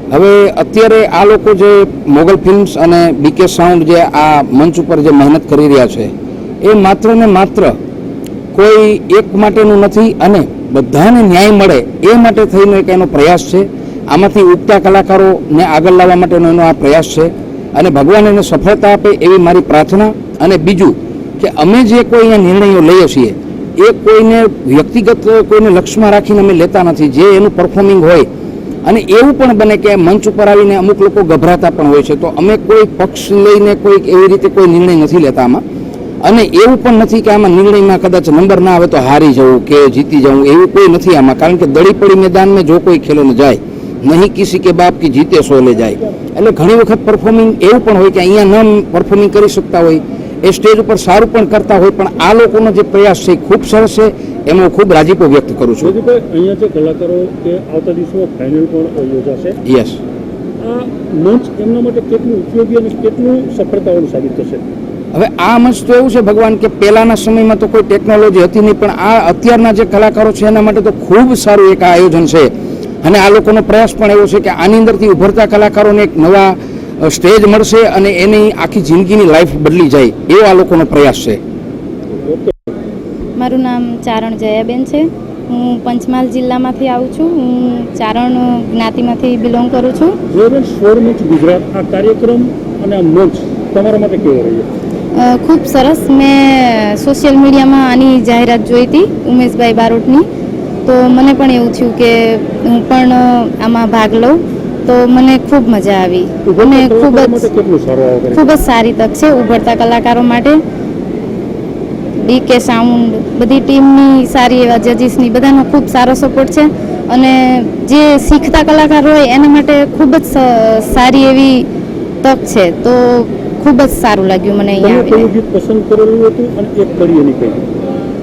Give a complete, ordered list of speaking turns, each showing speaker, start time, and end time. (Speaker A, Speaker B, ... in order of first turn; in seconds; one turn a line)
Speaker A: 0.1-6.1
Speaker A: 6.6-7.7
Speaker A: 8.5-28.2
Speaker A: 28.9-35.6
Speaker A: 36.2-55.9
Speaker B: 55.8-59.6
Speaker A: 59.6-60.0
Speaker B: 60.6-64.6
Speaker A: 65.1-72.5
Speaker A: 73.0-81.4
Speaker B: 82.2-82.5
Speaker C: 83.4-90.2
Speaker B: 90.3-94.7
Speaker C: 95.2-100.2
Speaker C: 100.8-107.5
Speaker B: 106.4-108.6
Speaker C: 108.3-110.6
Speaker C: 112.2-121.7
Speaker C: 122.2-125.3
Speaker B: 124.8-127.6